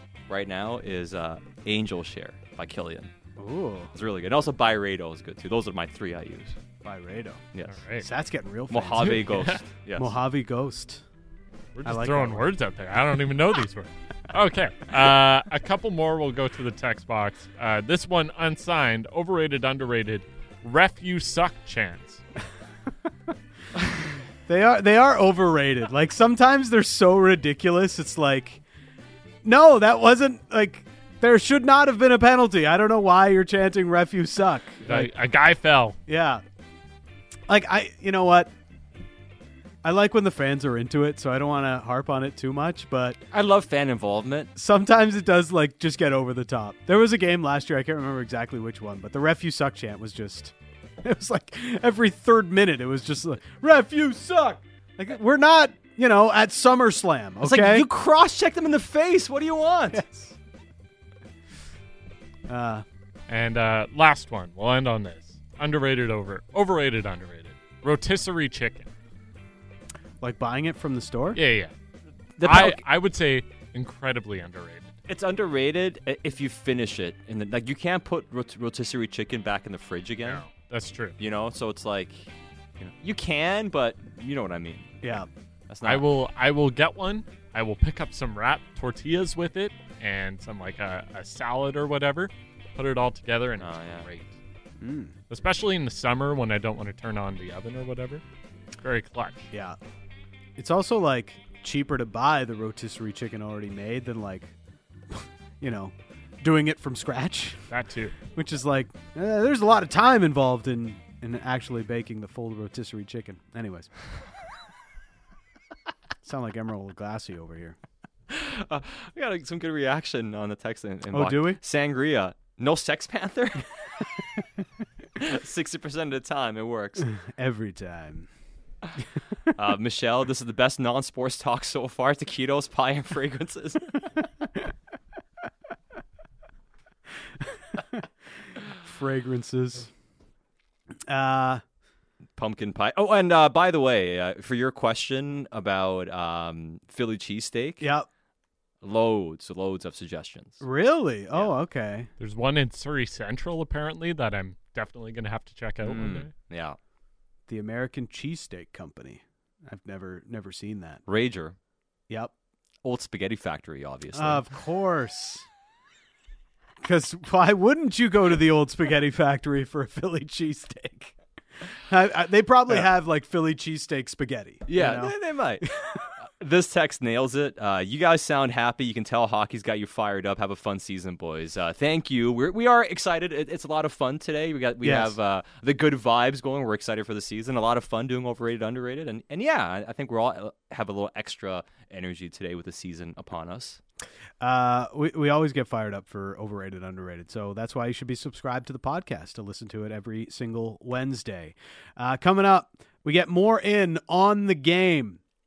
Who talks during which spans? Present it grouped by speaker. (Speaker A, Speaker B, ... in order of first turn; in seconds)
Speaker A: 0.3-3.1, 3.9-6.6, 7.5-7.8, 8.7-10.2, 43.3-44.5, 57.4-60.0, 72.4-72.8, 75.1-80.4, 81.2-85.2, 85.7-86.0, 93.6-94.1, 118.3-123.7, 125.2-127.0, 129.5-134.0, 142.4-147.9, 148.8-150.6, 155.8-156.8, 161.1-161.6, 162.8-164.4, 174.7-175.7, 176.2-193.8
Speaker B: 3.4-3.9, 6.8-7.4, 8.0-9.4, 10.0-11.0, 11.8-12.5, 24.4-28.6, 29.4-35.1, 36.1-36.4, 37.5-38.5, 39.8-43.2, 44.5-57.9, 59.9-60.3, 62.5-62.8, 70.2-71.4, 85.0-85.3, 94.8-95.1, 99.5-99.8, 100.6-104.5, 105.1-107.6, 108.3-113.9, 116.2-117.8, 121.1-121.6, 127.0-128.3, 138.8-139.9, 141.1-141.6, 147.8-148.1, 150.6-152.1, 157.5-161.0, 164.1-165.4, 166.8-171.1, 171.7-175.1, 184.8-185.1, 194.4-205.2
Speaker C: 7.7-8.1, 9.0-9.6, 11.7-22.2, 34.8-36.0, 63.3-68.9, 71.3-71.7, 72.4-74.9, 80.2-81.2, 85.8-94.3, 95.3-98.2, 98.8-99.5, 107.7-108.1, 152.2-156.3